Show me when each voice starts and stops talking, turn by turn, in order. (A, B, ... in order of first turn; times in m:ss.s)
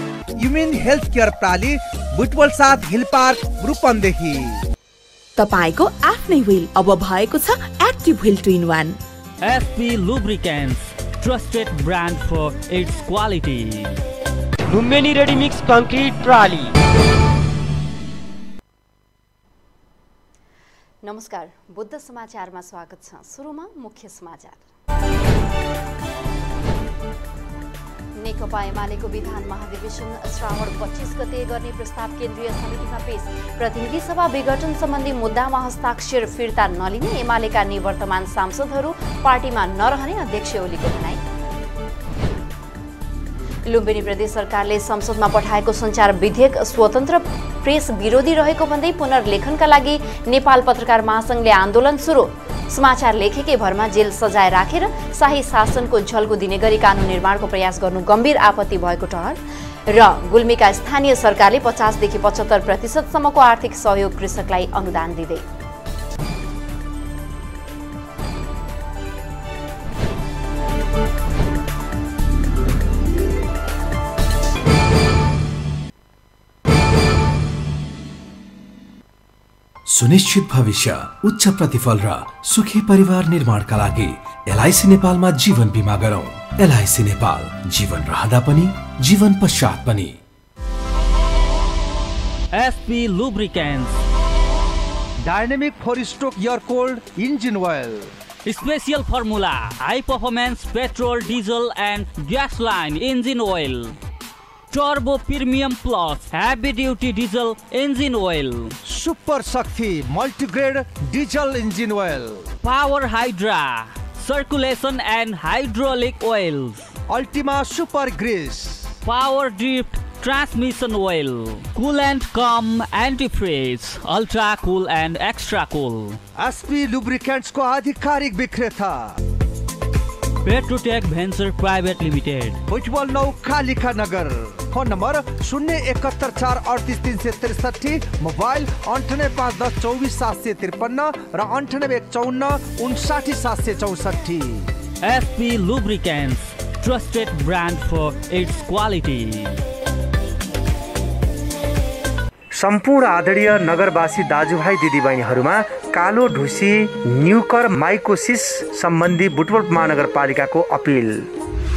0:00.4-0:04.6 A
0:05.4-0:09.0 B
0:09.4-0:13.9 C
0:14.7-0:16.7 D
0:21.0-0:24.6 E
0:28.2-0:41.2 E
0:43.6-1:05.4 E
1:19.9-1:30.2 F
1:32.5-1:34.0 C
1:35.2-1:38.1 A
1:38.4-1:43.9 C
1:44.7-1:48.7 C
1:48.8-1:52.5 A
1:52.6-1:56.9 C
1:57.1-1:58.9 A
1:59.0-2:06.2 C
2:06.4-2:09.2 A
2:10.4-2:12.6 C
2:12.7-2:24.7 A
2:25.0-2:29.6 C
2:32.6-2:41.3 G